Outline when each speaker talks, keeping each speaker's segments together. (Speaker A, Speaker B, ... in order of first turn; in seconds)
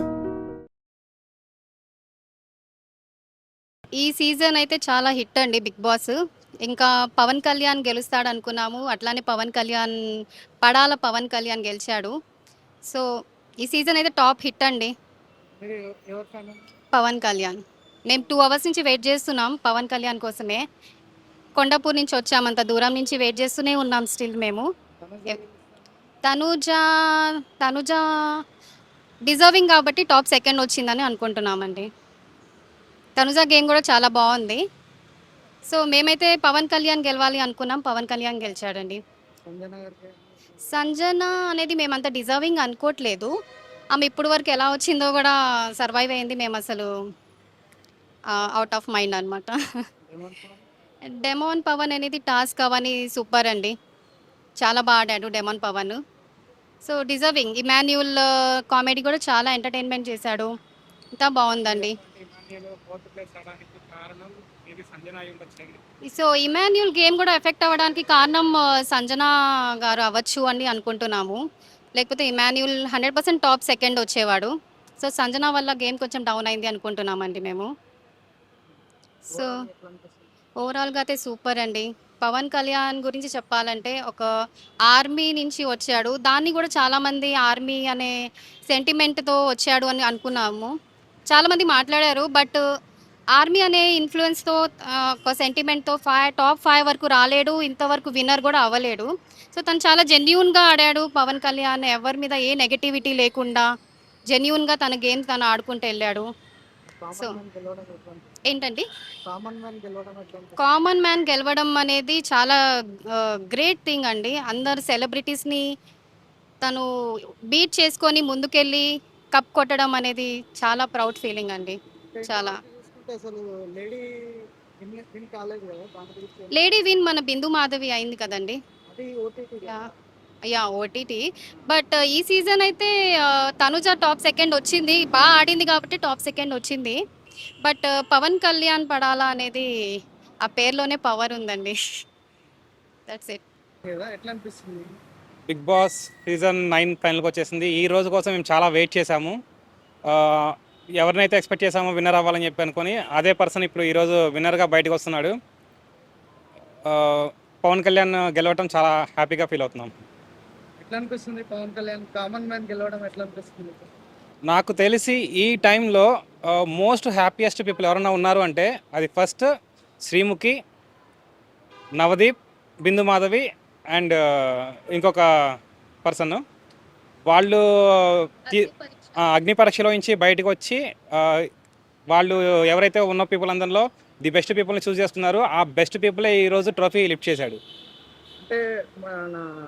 Speaker A: 4.0-6.1, 6.7-9.9, 10.6-12.1, 13.6-14.9, 16.9-17.6, 18.1-20.6, 21.6-24.6, 26.2-28.0, 29.2-31.9, 33.2-34.6, 35.7-39.0, 40.7-43.3, 43.9-46.9, 48.3-49.6, 51.0-53.7, 54.6-56.0, 56.8-60.5, 61.1-61.9, 66.1-71.4, 72.0-77.7, 80.6-84.3, 84.9-88.1, 88.7-90.7, 91.3-92.6, 93.3-103.7, 104.3-106.3, 108.5-108.8, 110.6-115.6, 116.6-116.9, 117.5-121.8, 122.3-122.6, 126.5-128.6, 130.5-137.0, 137.6-139.7, 140.4-141.8, 143.1-143.4
Speaker B: 15.6-16.6, 25.0-25.5, 39.5-40.2, 50.1-50.6, 79.3-80.2, 107.0-108.2, 109.3-110.5, 122.1-126.5, 128.9-129.8, 143.9-144.9, 160.8-163.8, 188.4-189.4
Speaker C: 62.1-65.8, 145.5-149.3, 150.1-155.3, 156.9-159.9, 164.5-166.1, 166.8-169.4, 170.0-170.5, 172.0-175.2, 176.0-176.4, 177.3-177.6, 179.2-181.2, 182.1-187.6